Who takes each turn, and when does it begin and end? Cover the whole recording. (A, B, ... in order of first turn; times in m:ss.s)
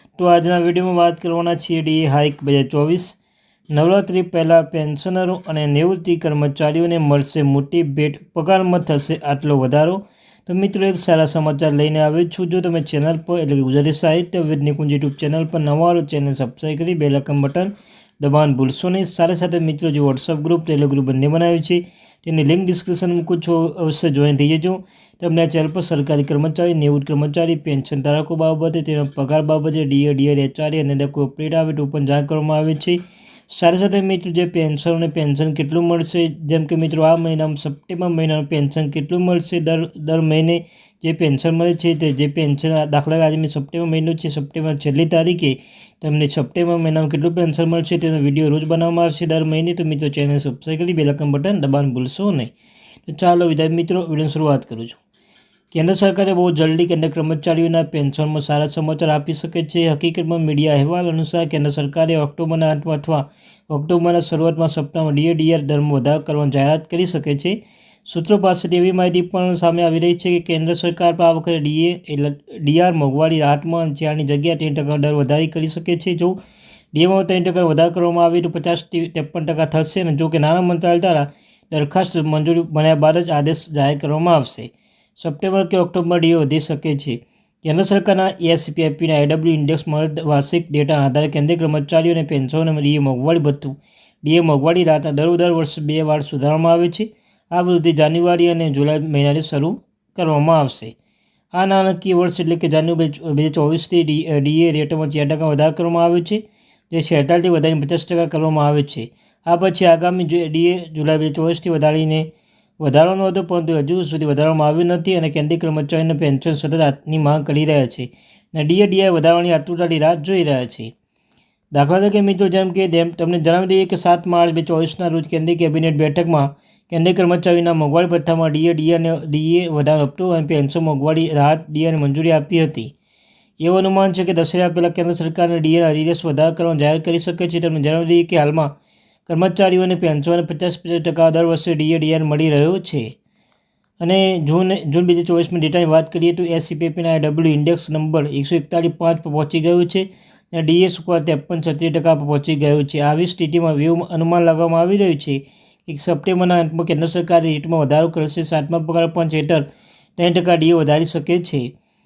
0:00.2-0:03.2 A
0:03.7-0:52.5 A
0:53.1-0:55.0 A
0:55.7-1:16.4 A
1:16.9-1:40.9 A
1:41.5-1:52.3 A
1:52.8-2:00.9 A
2:01.7-2:12.9 A
2:13.6-2:18.7 A
2:19.3-2:23.1 A
2:24.0-2:39.6 A
2:40.2-2:41.7 A